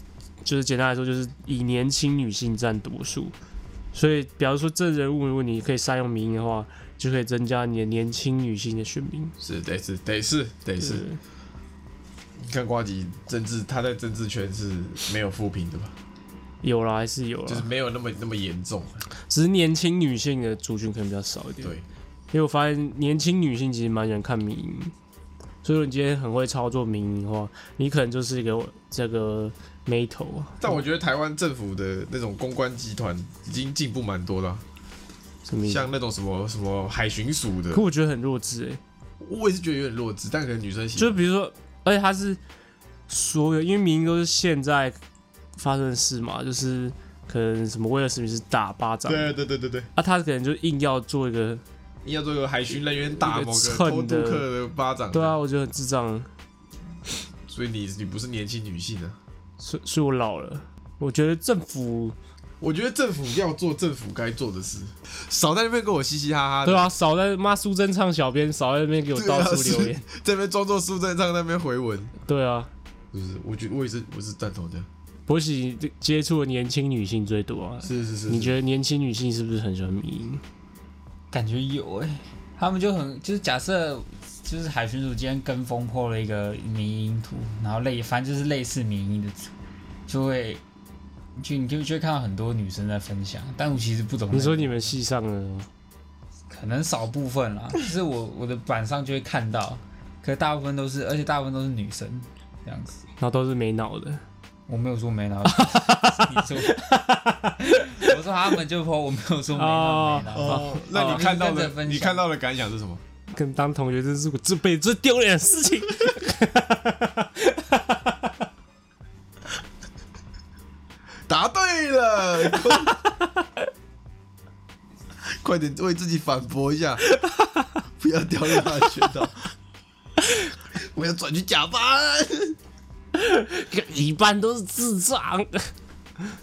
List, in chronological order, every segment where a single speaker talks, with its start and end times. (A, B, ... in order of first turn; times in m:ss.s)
0:00.4-0:03.3 A
0:03.9-0:09.3 A
0:09.4-0:11.0 B
0:10.8-0:11.2 A
0:12.4-0:15.9 B
0:16.6-0:17.7 A
0:17.5-0:19.0 B
0:19.3-0:21.7 A
0:22.3-0:24.9 A
0:25.6-0:30.8 A
0:30.6-0:34.6 B
0:35.4-0:35.9 A
0:35.6-0:37.8 B
0:37.7-0:38.8 A
0:39.2-0:41.2 B
0:41.0-0:42.4 A
0:43.1-0:45.0 A
0:45.6-0:49.4 A
0:49.0-0:49.9 B
0:49.9-0:51.6 A
0:52.0-0:55.4 B
0:53.2-0:54.4 A
0:55.1-0:56.3 A
0:57.5-0:59.2 B
0:59.6-1:02.2 A
1:02.6-1:06.9 B
1:06.6-1:10.0 A
1:09.1-1:12.1 B
1:12.3-1:12.7 A
1:13.1-1:14.9 B
1:15.3-1:20.4 A
1:17.8-1:18.5 B
1:21.3-1:29.5 C
1:30.1-1:30.6 C
1:31.4-1:35.0 C
1:34.3-1:35.7 A
1:36.5-1:43.0 C
1:43.2-1:44.2 A
1:44.7-1:46.9 C
1:45.5-1:48.1 A
1:47.6-1:52.2 C
1:49.6-1:51.2 A
1:50.3-1:53.0 B
1:53.3-1:58.3 A
2:01.3-2:03.0 B
2:05.2-2:07.0 B
2:07.2-2:07.7 A
2:08.0-2:09.5 B
2:10.7-2:12.6 B
2:13.1-2:15.7 A